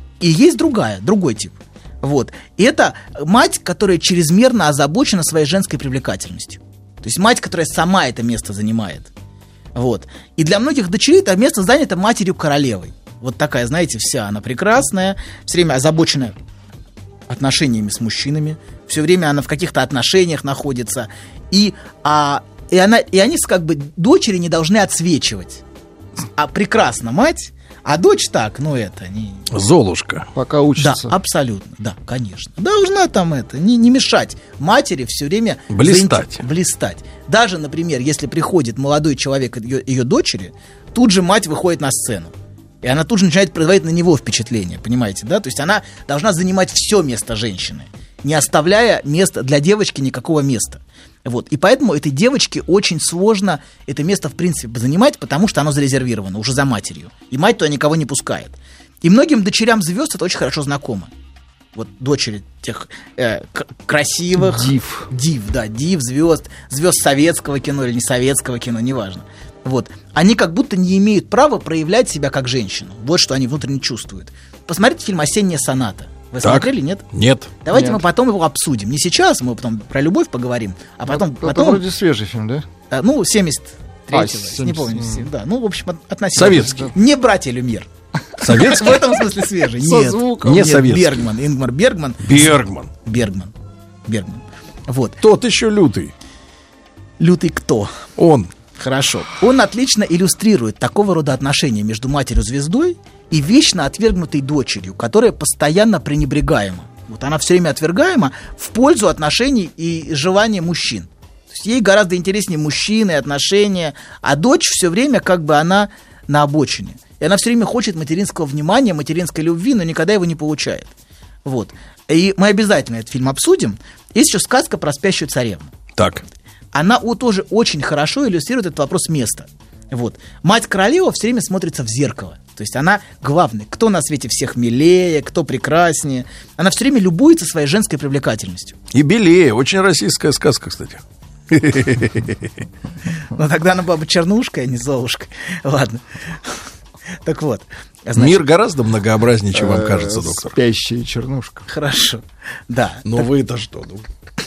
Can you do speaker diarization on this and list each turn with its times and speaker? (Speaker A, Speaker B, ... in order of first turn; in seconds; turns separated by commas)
Speaker A: 0.2-9.1, Speaker A: 9.7-16.4, Speaker A: 17.3-25.6, Speaker A: 26.4-29.4, Speaker B: 29.5-30.3, Speaker C: 30.3-31.1, Speaker A: 30.8-42.3, Speaker B: 35.7-36.4, Speaker A: 42.8-61.1, Speaker A: 61.7-77.0, Speaker C: 64.4-65.1, Speaker B: 76.4-77.5, Speaker A: 77.6-81.8, Speaker C: 77.7-78.0, Speaker C: 81.1-82.6, Speaker A: 82.9-87.9, Speaker C: 84.1-85.3, Speaker B: 86.3-86.9, Speaker B: 88.4-89.0, Speaker A: 88.4-93.5, Speaker C: 89.8-90.6, Speaker B: 90.4-91.3, Speaker B: 92.2-92.9, Speaker A: 94.0-95.2, Speaker B: 95.2-96.1, Speaker A: 97.2-97.9, Speaker B: 98.2-98.5, Speaker A: 98.8-120.9, Speaker A: 121.4-125.7, Speaker B: 126.0-126.2, Speaker A: 126.7-138.8, Speaker B: 138.9-142.6, Speaker A: 143.3-146.5, Speaker A: 147.2-148.4, Speaker B: 148.1-150.6, Speaker C: 149.6-151.7, Speaker A: 151.7-153.2, Speaker B: 153.0-154.1